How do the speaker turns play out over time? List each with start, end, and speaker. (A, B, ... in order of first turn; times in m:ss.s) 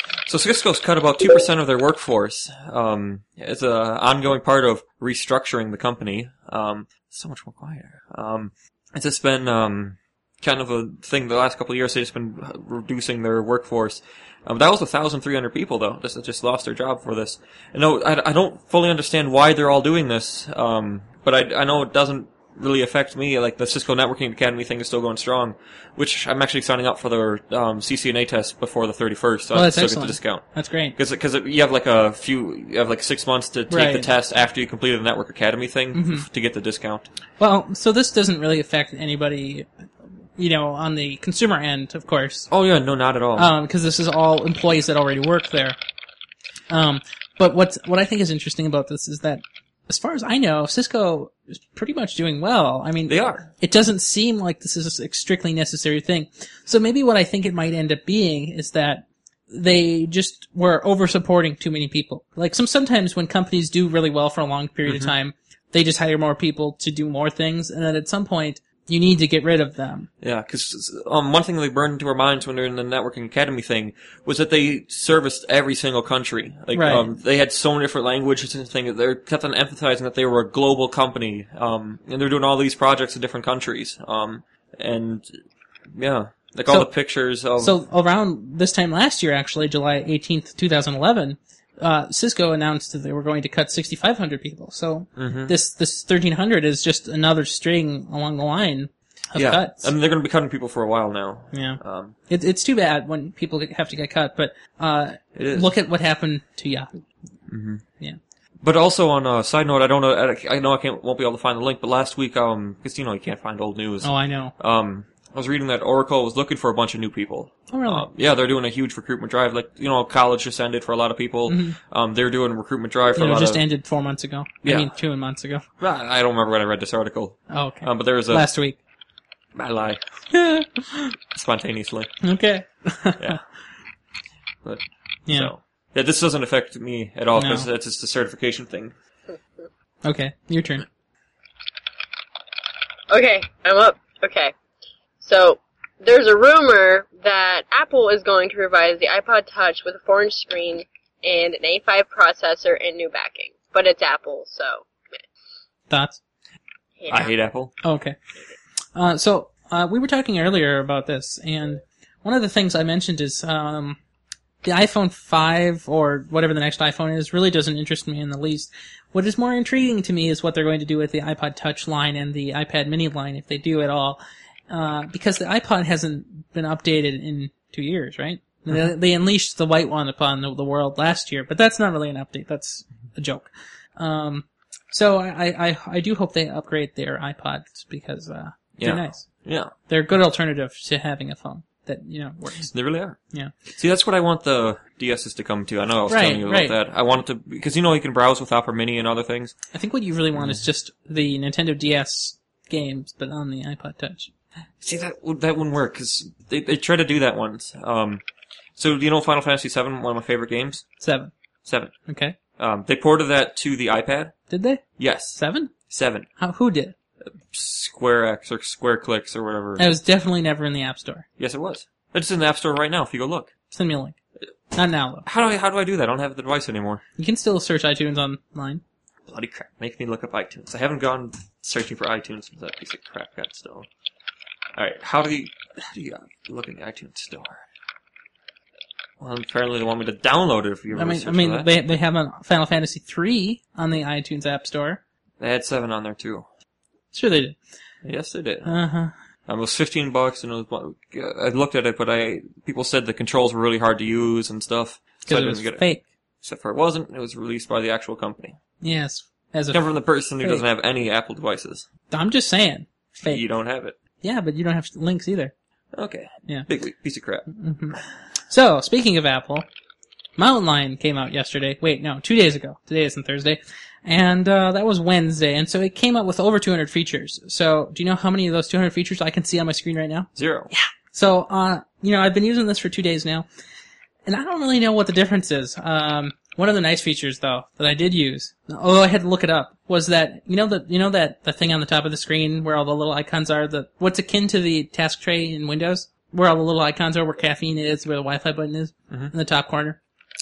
0:00.3-0:37.1 A
0:29.5-0:31.0 B
0:33.7-0:34.1 B
0:35.9-0:36.3 B
0:37.4-0:39.7 B
0:40.4-0:42.5 B
0:42.5-0:43.5 A
0:43.4-0:45.8 B
0:46.7-1:10.1 B
0:53.1-0:53.5 A
1:04.8-1:05.1 A
1:10.2-1:25.4 A
1:16.7-1:17.1 B
1:25.9-1:27.8 A
1:27.6-1:39.9 B
1:35.2-1:35.5 A
1:39.4-1:42.2 A
1:41.5-1:47.0 B
1:45.4-1:45.7 A
1:47.5-1:47.8 A
1:48.6-2:03.6 A
1:54.0-1:54.5 B
1:57.7-1:58.1 B
2:01.5-2:01.8 B
2:03.2-2:05.6 B
2:04.6-2:04.9 A
2:05.8-2:08.5 A
2:07.5-2:08.8 B
2:09.6-2:10.0 A
2:10.3-2:11.2 B
2:11.3-2:12.1 A
2:12.2-2:13.4 B
2:14.6-2:19.0 A
2:15.3-2:15.5 B
2:17.4-2:17.7 B
2:20.0-2:20.8 B
2:23.1-2:24.5 C
2:25.2-2:34.9 C
2:35.9-2:36.2 B
2:37.0-2:37.3 C
2:37.1-2:37.7 A
2:37.8-2:38.2 B
2:39.0-2:44.0 B
2:44.6-3:09.3 B
3:08.8-3:09.7 A
3:09.9-3:12.7 B
3:12.6-3:13.2 A
3:13.8-3:19.5 A
3:16.1-3:16.8 B
3:19.7-3:24.3 B
3:20.4-3:20.6 A
3:24.8-3:28.2 A
3:28.8-3:30.8 A
3:31.0-3:31.3 B
3:31.6-3:31.9 A
3:32.1-3:32.4 B
3:32.6-3:34.3 A
3:34.5-3:34.8 B
3:35.0-3:35.4 A
3:35.4-3:35.7 B
3:35.9-3:36.3 A
3:36.4-3:36.9 B
3:37.2-3:40.0 A
3:39.8-3:41.3 B
3:41.4-3:43.5 A
3:43.7-3:44.2 B
3:44.7-3:45.2 B
3:45.2-3:47.0 A
3:47.2-3:48.8 B
3:49.3-3:53.9 A
3:54.8-3:57.6 A
3:59.2-4:01.7 A
4:00.9-4:05.0 B
4:05.4-4:06.4 A
4:07.1-4:07.6 B
4:08.0-4:08.8 A
4:08.6-4:09.1 B
4:09.5-4:15.8 A
4:15.3-4:16.0 B
4:16.4-4:18.6 A
4:18.8-4:19.8 B
4:19.7-4:21.9 A
4:20.4-4:20.6 B
4:22.1-4:23.4 B
4:23.2-4:24.0 A
4:24.2-4:25.5 B
4:25.9-4:27.5 A
4:27.5-4:29.7 B
4:30.4-4:43.5 B
4:40.4-4:40.7 A
4:44.3-5:00.0 B